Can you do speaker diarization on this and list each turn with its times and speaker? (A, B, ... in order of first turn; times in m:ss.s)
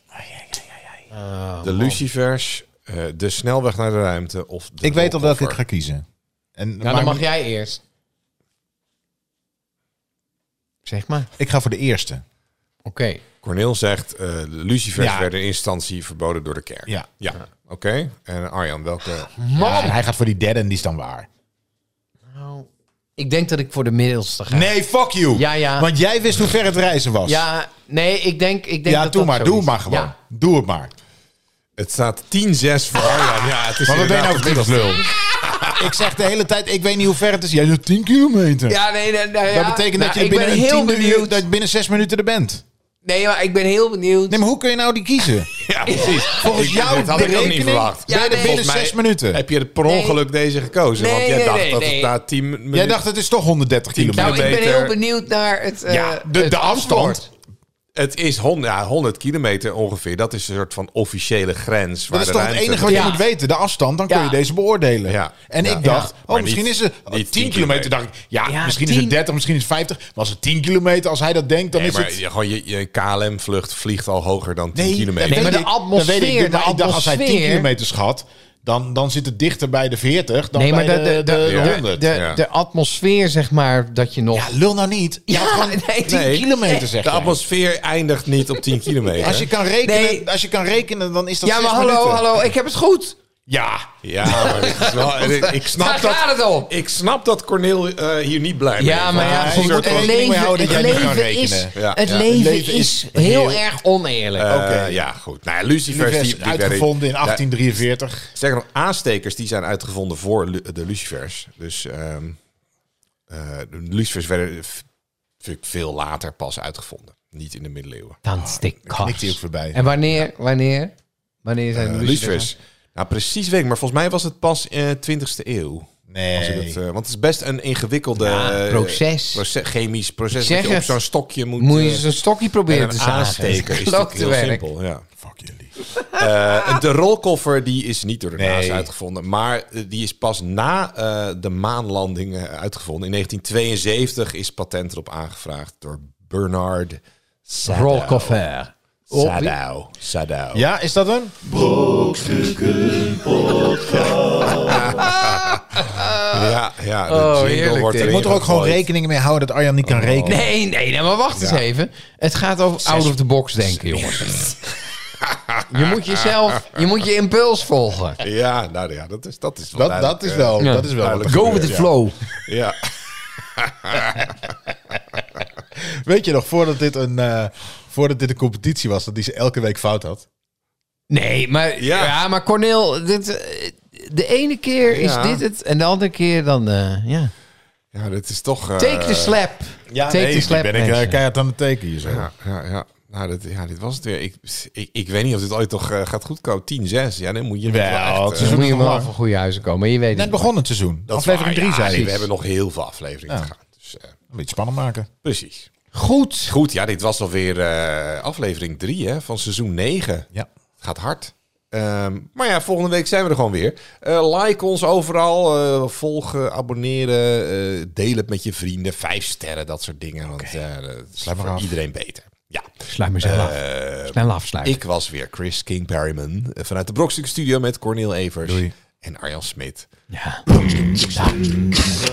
0:00.1-0:00.8 A
0:01.1-0:02.0 B
0:01.6-0:05.6 C
0:04.8-0:06.0 A
0:06.6-0:07.2 A
0:06.8-0:07.8 B
0:10.8-0:11.3 B
0:11.4-0:12.2 A
0:12.8-0:13.2 B
0:13.4-0:19.3 C
0:15.0-0:15.3 A
0:19.4-0:20.0 B
0:19.6-0:21.3 A
0:22.3-0:24.8 B
0:24.5-0:27.4 A
0:25.3-0:25.9 B
0:27.2-0:30.1 B
0:28.8-0:31.0 A
0:31.8-0:35.8 C
0:33.0-0:33.3 B
0:33.8-0:35.0 A
0:35.2-0:35.8 B
0:35.7-0:38.8 A
0:38.7-0:41.4 B
0:39.5-0:42.6 A
0:43.0-0:44.4 B
0:44.3-0:49.4 A
0:45.6-0:53.0 C
0:45.8-0:48.7 B
0:49.8-0:50.2 B
0:51.0-0:52.1 B
0:52.7-0:54.6 A
0:53.9-0:54.9 C
0:54.2-0:57.3 B
0:55.9-0:57.2 A
0:57.9-1:03.2 C
1:02.1-1:12.2 A
1:02.8-1:03.2 B
1:04.1-1:04.4 B
1:05.0-1:07.9 C
1:05.8-1:06.1 B
1:08.4-1:09.2 B
1:11.7-1:15.6 C
1:14.7-1:22.1 A
1:15.2-1:17.7 B
1:20.5-1:24.6 B
1:21.4-1:22.4 C
1:24.3-1:27.4 A
1:25.3-1:26.9 B
1:26.1-1:29.5 C
1:28.5-1:29.1 B
1:29.2-1:32.2 A
1:29.8-1:30.3 B
1:31.4-1:33.2 B
1:33.5-1:33.9 A
1:34.0-1:41.0 C
1:34.2-1:36.7 B
1:38.8-1:44.5 B
1:39.1-1:43.6 A
1:41.7-1:42.2 C
1:44.4-1:47.4 C
1:44.4-1:45.0 A
1:45.9-1:48.3 A
1:48.3-1:52.4 C
1:53.3-1:54.8 C
1:55.4-1:58.2 C
1:58.2-2:00.9 B
1:58.4-1:59.8 A
2:01.4-2:02.5 B
2:01.7-2:12.0 C
2:06.1-2:06.8 A
2:08.2-2:09.4 B
2:10.3-2:11.0 B
2:11.6-2:14.6 B
2:12.7-2:15.0 C
2:15.2-2:15.7 A
2:15.9-2:16.6 B
2:16.1-2:28.4 C
2:18.4-2:18.9 A
2:27.6-2:29.6 B
2:29.1-2:30.6 C
2:30.5-2:31.3 A
2:32.9-2:38.8 C
2:33.9-2:38.2 B
2:38.0-2:40.5 A
2:39.8-2:40.4 C
2:40.2-2:44.5 B
2:41.4-2:41.6 C
2:43.9-2:44.6 C
2:45.2-2:46.8 C
2:45.7-2:48.2 B
2:48.2-2:51.9 C
2:49.7-2:51.9 A
2:50.6-2:52.2 B
2:52.4-2:52.8 C
2:53.4-2:54.4 C
2:55.7-3:00.2 A
3:01.1-3:07.3 B
3:01.8-3:02.2 C
3:04.9-3:05.4 C
3:07.9-3:09.4 C
3:08.8-3:11.2 B
3:09.9-3:12.3 A
3:12.0-3:18.6 C
3:17.6-3:19.1 A
3:18.4-3:20.5 B
3:20.1-3:22.3 A
3:21.1-3:24.1 C
3:24.3-3:25.1 A
3:25.2-3:25.7 C
3:25.9-3:26.5 B
3:26.5-3:30.2 C
3:30.8-3:49.9 C
3:40.3-3:40.6 A
3:41.2-3:41.7 A
3:42.9-3:44.8 B
3:48.4-3:48.7 A
3:50.1-3:50.4 B
3:50.6-3:51.5 C
3:50.6-3:51.6 A